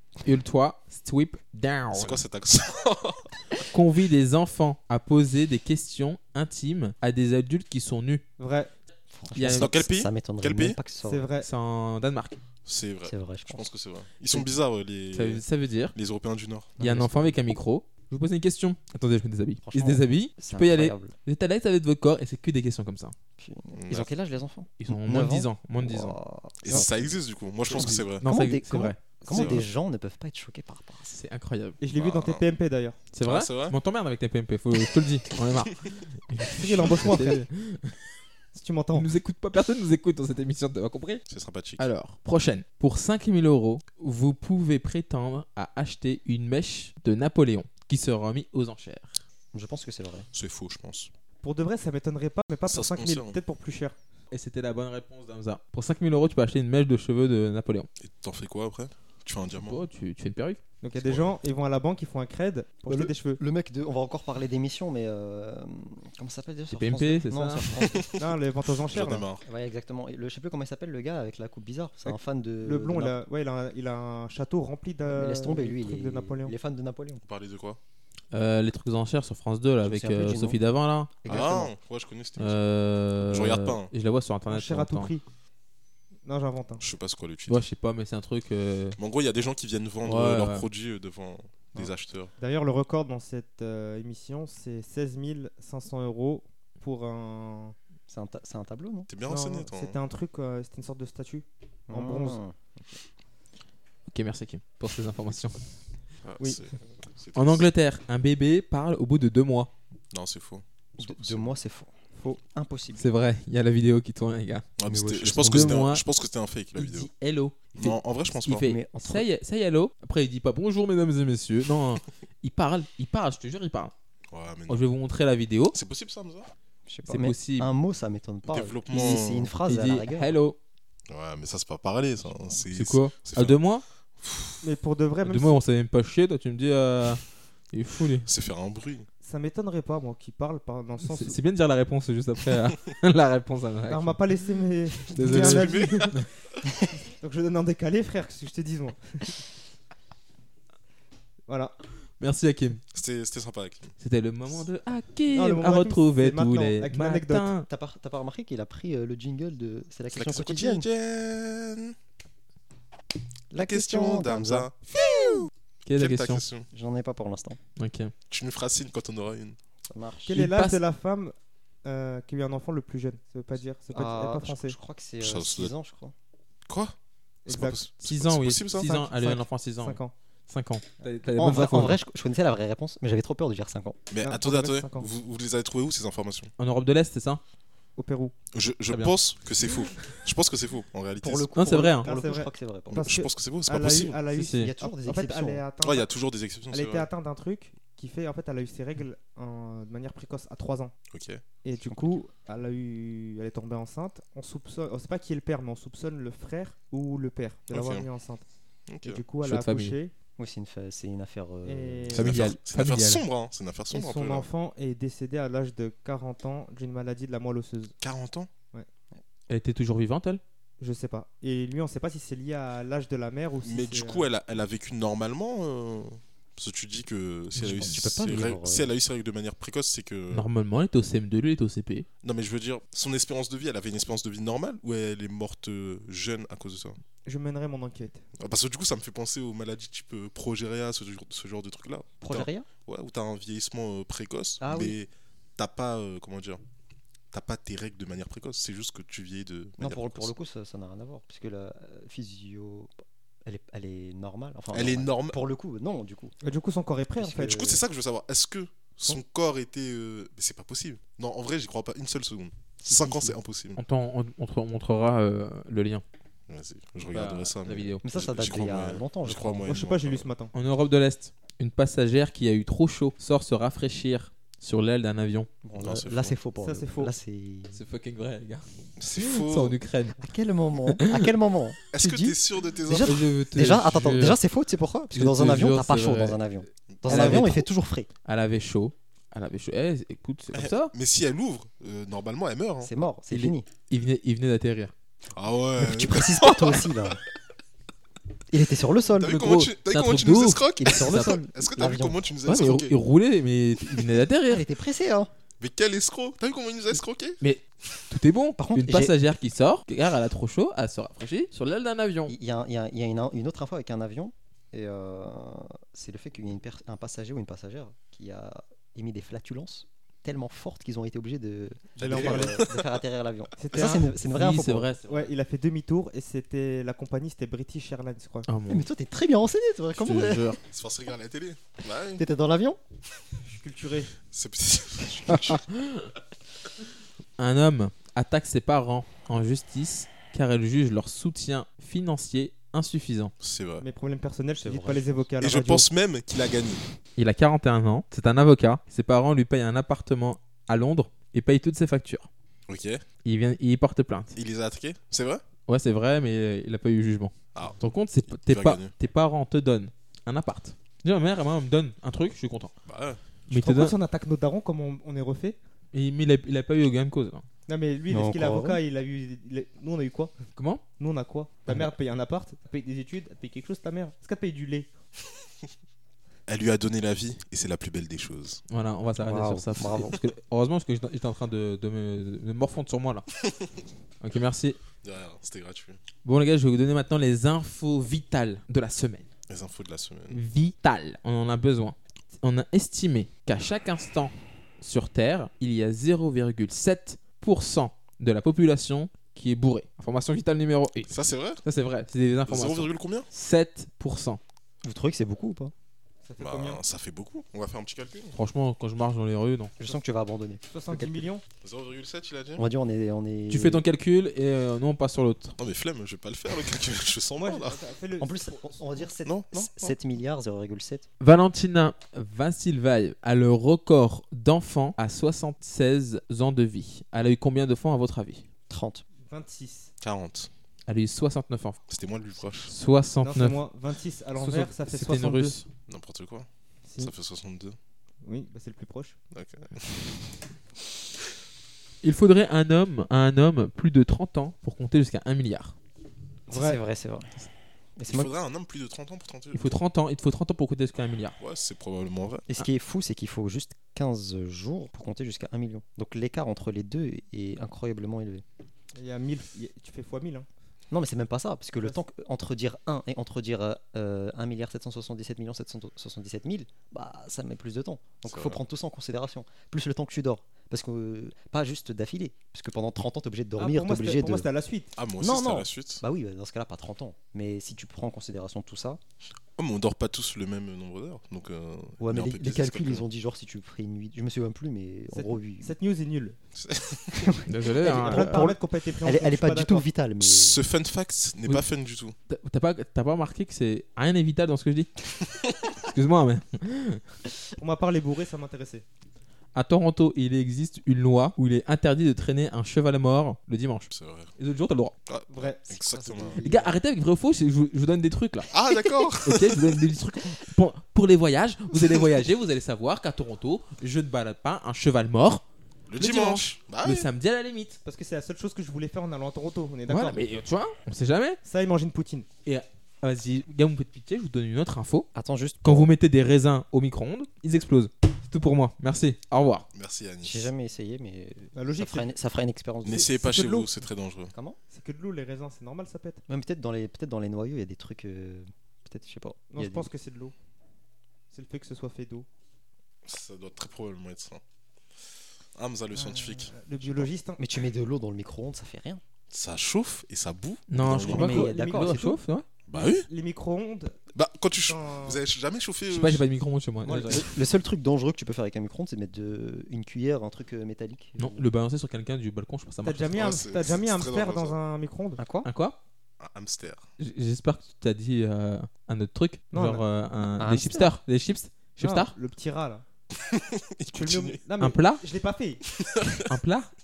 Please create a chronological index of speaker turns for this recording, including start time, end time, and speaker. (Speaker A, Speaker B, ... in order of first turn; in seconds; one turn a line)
Speaker A: 0.2-2.2
Speaker B: 1.9-3.6
Speaker A: 3.7-8.2
Speaker C: 8.4-8.7
Speaker D: 9.1-11.3
Speaker A: 9.3-9.7
Speaker B: 9.5-10.8
Speaker C: 11.0-11.5
Speaker A: 11.4-12.4
Speaker B: 12.7-15.4
Speaker D: 13.1-13.7
Speaker A: 15.1-15.9
Speaker B: 15.9-16.8
Speaker D: 16.8-17.4
Speaker A: 16.8-23.1
Speaker D: 19.6-21.1
Speaker D: 23.4-27.1
Speaker B: 23.7-24.1
Speaker A: 24.8-26.2
Speaker B: 26.6-28.2
Speaker D: 27.7-31.2
Speaker A: 28.2-29.6
Speaker B: 29.3-29.6
Speaker A: 31.1-31.8
Speaker C: 31.8-33.0
Speaker B: 31.9-32.4
Speaker A: 33.1-38.0
Speaker B: 33.2-33.8
Speaker C: 36.6-37.4
Speaker C: 38.5-39.1
Speaker A: 38.9-41.2
Speaker B: 41.3-41.9
Speaker A: 41.8-49.2
Speaker D: 49.5-50.3
Speaker B: 50.3-51.1
Speaker C: 51.4-54.0
Speaker B: 52.7-53.4
Speaker A: 54.3-57.9
Speaker B: 58.0-59.8
Speaker A: 59.5-60.6
Speaker C: 60.8-63.4
Speaker B: 61.0-61.3
Speaker D: 62.9-68.1
Speaker A: 66.7-67.8
Speaker B: 67.8-69.5
Speaker C: 68.2-69.3
Speaker D: 69.4-73.2
Speaker C: 72.6-76.5
Speaker D: 75.1-77.2
Speaker B: 77.2-77.8
Speaker A: 78.3-81.1
Speaker D: 79.8-80.6
Speaker D: 81.2-81.7
Speaker B: 81.3-82.6
Speaker A: 82.4-85.1
Speaker B: 83.3-83.9
Speaker C: 84.5-85.2
Speaker C: 86.2-86.8
Speaker B: 86.8-87.6
Speaker A: 87.5-89.0
Speaker B: 89.0-92.3
Speaker A: 90.0-90.7
Speaker C: 92.4-97.8
Speaker D: 98.1-99.1
Speaker B: 99.1-100.0
Speaker C: 99.3-102.4
Speaker D: 101.9-103.0
Speaker A: 104.1-105.7
Speaker B: 106.2-107.7
Speaker A: 107.3-109.7
Speaker B: 110.1-111.5
Speaker D: 111.0-111.9
Speaker D: 112.5-113.1
Speaker A: 113.0-114.7
Speaker B: 114.8-117.1
Speaker D: 114.9-115.9
Speaker A: 115.4-116.0
Speaker A: 116.8-123.9
Speaker B: 117.8-118.7
Speaker D: 118.6-119.3
Speaker B: 124.3-124.9
Speaker A: 124.7-125.8
Speaker B: 125.7-126.5
Speaker D: 126.9-130.3
Speaker A: 127.1-127.7
Speaker B: 128.5-129.5
Speaker A: 129.7-130.6
Speaker B: 131.1-133.6
Speaker A: 132.7-133.8
Speaker B: 134.2-134.6
Speaker C: 134.6-135.6
Speaker A: 135.2-138.3
Speaker B: 138.3-139.1
Speaker C: 139.2-141.4
Speaker A: 141.0-144.2
Speaker C: 143.9-146.2
Speaker A: 145.1-146.3
Speaker B: 145.2-146.2
Speaker C: 147.1-149.4
Speaker C: 151.5-151.8
Speaker A: 152.2-152.8
Speaker B: 152.9-153.9
Speaker A: 154.0-157.7
Speaker C: 155.3-157.5
Speaker D: 157.7-160.9
Speaker B: 160.1-161.9
Speaker D: 163.5-164.7
Speaker B: 163.5-166.7
Speaker A: 165.8-166.4
Speaker D: 166.7-167.6
Speaker A: 167.8-168.1
Speaker B: 168.3-169.6
Speaker D: 169.9-170.3
Speaker C: 170.3-174.8
Speaker A: 170.3-170.8
Speaker D: 173.9-176.2
Speaker B: 175.2-175.7
Speaker B: 176.7-176.9
Speaker C: 177.5-177.8
Speaker B: 177.5-178.9
Speaker A: 178.0-182.0
Speaker C: 178.8-180.1
Speaker D: 181.3-184.0
Speaker B: 184.1-186.5
Speaker C: 184.2-185.1
Speaker A: 186.6-187.4
Speaker C: 188.0-188.3
Speaker B: 188.5-191.5
Speaker D: 191.2-193.1
Speaker A: 191.5-192.1
Speaker C: 192.0-196.1
Speaker B: 192.9-194.2
Speaker A: 194.3-194.7
Speaker D: 194.5-195.6
Speaker B: 195.8-197.1
Speaker C: 196.7-200.9
Speaker B: 201.1-201.4
Speaker C: 201.6-208.4
Speaker D: 201.8-202.2
Speaker B: 207.7-208.1
Speaker B: 208.9-209.2
Speaker C: 209.0-210.1
Speaker A: 209.4-210.0
Speaker D: 210.4-212.4
Speaker C: 211.7-212.5
Speaker B: 212.1-214.5
Speaker A: 212.1-213.2
Speaker C: 213.9-217.9
Speaker B: 218.0-218.5
Speaker A: 219.5-220.4
Speaker C: 220.8-224.3
Speaker B: 223.6-230.5
Speaker A: 227.6-227.9
Speaker D: 227.6-228.9
Speaker A: 230.3-232.1
Speaker B: 232.2-237.0
Speaker C: 237.2-238.2
Speaker B: 238.4-246.6
Speaker D: 242.2-242.7
Speaker D: 244.6-245.0
Speaker B: 247.3-250.3
Speaker D: 249.8-252.9
Speaker D: 253.4-256.4
Speaker B: 254.7-255.4
Speaker C: 256.4-257.7
Speaker D: 257.2-257.8
Speaker B: 257.4-263.8
Speaker D: 262.8-263.4
Speaker A: 263.8-266.0
Speaker B: 266.5-270.3
Speaker A: 267.1-268.1
Speaker D: 268.0-269.8
Speaker C: 269.7-270.5
Speaker A: 270.5-275.5
Speaker D: 275.6-277.8
Speaker B: 275.7-276.3
Speaker C: 276.6-277.1
Speaker A: 277.7-280.2
Speaker B: 279.0-279.8
Speaker D: 280.2-288.1
Speaker A: 280.9-281.3
Speaker B: 281.9-283.3
Speaker A: 282.9-284.4
Speaker A: 285.1-286.4
Speaker B: 286.9-287.4
Speaker A: 287.1-287.7
Speaker A: 288.2-290.9
Speaker B: 290.5-292.9
Speaker D: 292.8-293.7
Speaker A: 293.3-294.9
Speaker B: 295.3-297.1
Speaker D: 295.8-297.2
Speaker D: 298.5-299.4
Speaker B: 299.2-302.9
Speaker A: 299.2-301.4
Speaker D: 300.8-302.3
Speaker A: 302.4-304.6
Speaker D: 304.5-305.3
Speaker B: 305.6-307.4
Speaker A: 307.4-312.4
Speaker D: 308.6-309.2
Speaker D: 312.3-324.9
Speaker B: 322.0-323.0
Speaker C: 322.0-322.6
Speaker C: 323.6-324.2
Speaker A: 324.3-325.3
Speaker C: 325.1-328.5
Speaker A: 328.5-328.9
Speaker D: 328.7-330.5
Speaker A: 329.9-330.6
Speaker B: 330.7-332.2
Speaker D: 332.2-332.8
Speaker C: 333.4-334.1
Speaker B: 334.3-335.7
Speaker A: 335.3-336.1
Speaker A: 337.4-343.3
Speaker B: 343.4-343.9
Speaker C: 343.8-345.9
Speaker D: 344.6-345.2
Speaker B: 345.4-346.8
Speaker A: 347.2-352.3
Speaker B: 352.7-353.0
Speaker A: 353.2-354.4
Speaker B: 354.4-355.4
Speaker A: 355.7-362.7
Speaker B: 357.5-358.9
Speaker B: 362.9-363.2
Speaker A: 363.5-363.9
Speaker C: 363.5-365.6
Speaker A: 365.9-367.4
Speaker C: 367.7-370.3
Speaker D: 368.1-368.8
Speaker A: 370.6-370.8
Speaker C: 371.0-374.9
Speaker B: 376.5-378.6
Speaker A: 378.7-383.3
Speaker D: 379.2-380.2
Speaker A: 384.2-384.8
Speaker B: 385.0-386.0
Speaker A: 386.2-389.3
Speaker B: 389.5-390.4
Speaker A: 390.3-404.4
Speaker B: 401.1-401.6
Speaker B: 402.5-403.3
Speaker D: 404.8-405.7
Speaker C: 406.2-406.8
Speaker B: 406.4-408.4
Speaker A: 408.3-409.8
Speaker D: 409.8-411.2
Speaker C: 410.7-411.4
Speaker B: 411.6-412.6
Speaker D: 412.6-413.8
Speaker A: 413.5-415.6
Speaker B: 415.6-417.8
Speaker C: 417.4-418.8
Speaker D: 418.2-421.1
Speaker B: 419.2-419.9
Speaker A: 421.2-428.4
Speaker D: 428.7-429.0
Speaker C: 429.3-429.9
Speaker B: 430.0-430.5
Speaker A: 430.9-431.8
Speaker B: 431.9-432.7
Speaker A: 432.7-433.6
Speaker C: 433.2-435.6
Speaker A: 434.4-435.7
Speaker B: 435.9-436.5
Speaker C: 436.9-437.1
Speaker B: 437.0-437.8
Speaker C: 438.2-439.2
Speaker B: 439.3-440.3
Speaker A: 442.0-445.8
Speaker D: 446.5-447.3
Speaker C: 446.5-446.8
Speaker D: 448.0-448.3
Speaker B: 448.1-449.8
Speaker A: 449.5-451.4
Speaker B: 451.4-452.7
Speaker D: 452.5-458.4
Speaker C: 458.9-460.5
Speaker D: 460.9-474.5
Speaker B: 468.2-468.6
Speaker C: 473.6-474.9
Speaker B: 475.0-476.0
Speaker D: 475.2-479.0
Speaker B: 479.6-483.1
Speaker D: 482.0-485.8
Speaker C: 485.1-486.4
Speaker B: 486.6-487.4
Speaker A: 487.4-488.5
Speaker D: 487.8-490.6
Speaker C: 487.8-489.9
Speaker B: 490.2-492.1
Speaker A: 492.3-494.9
Speaker A: 495.7-497.0
Speaker C: 497.6-498.9
Speaker A: 499.6-504.9
Speaker B: 503.9-504.3
Speaker B: 505.1-506.4
Speaker C: 505.3-506.7
Speaker D: 506.0-506.8
Speaker A: 506.4-508.6
Speaker B: 508.5-509.8
Speaker A: 509.2-515.4
Speaker B: 515.9-517.1
Speaker A: 516.0-517.8
Speaker C: 517.9-520.2
Speaker A: 519.9-521.4
Speaker C: 521.4-522.3
Speaker A: 522.5-525.1
Speaker D: 525.1-525.9
Speaker A: 525.6-529.7
Speaker B: 529.7-530.5
Speaker D: 530.2-533.2
Speaker C: 531.5-532.1
Speaker B: 532.9-534.3
Speaker C: 533.2-533.7
Speaker C: 534.7-536.2
Speaker D: 536.3-539.9
Speaker C: 539.5-540.3
Speaker C: 541.3-542.3
Speaker B: 543.0-544.4
Speaker B: 545.5-547.1
Speaker C: 545.9-547.4
Speaker D: 547.4-549.0
Speaker B: 549.3-551.5
Speaker A: 550.7-552.5
Speaker D: 551.0-552.2
Speaker C: 551.4-552.0
Speaker B: 552.7-553.1
Speaker C: 552.7-554.0
Speaker B: 554.1-556.2
Speaker C: 554.6-555.2
Speaker A: 555.9-557.4
Speaker D: 556.9-561.5
Speaker A: 561.2-563.2
Speaker C: 562.8-565.2
Speaker B: 563.1-564.6
Speaker D: 565.2-565.5
Speaker A: 565.4-565.8
Speaker B: 566.2-566.9
Speaker A: 567.0-572.1
Speaker C: 569.5-569.8
Speaker D: 570.4-571.0
Speaker C: 571.8-572.9
Speaker B: 573.1-574.4
Speaker C: 573.9-575.6
Speaker A: 574.6-575.0
Speaker B: 575.7-576.2
Speaker A: 576.3-576.7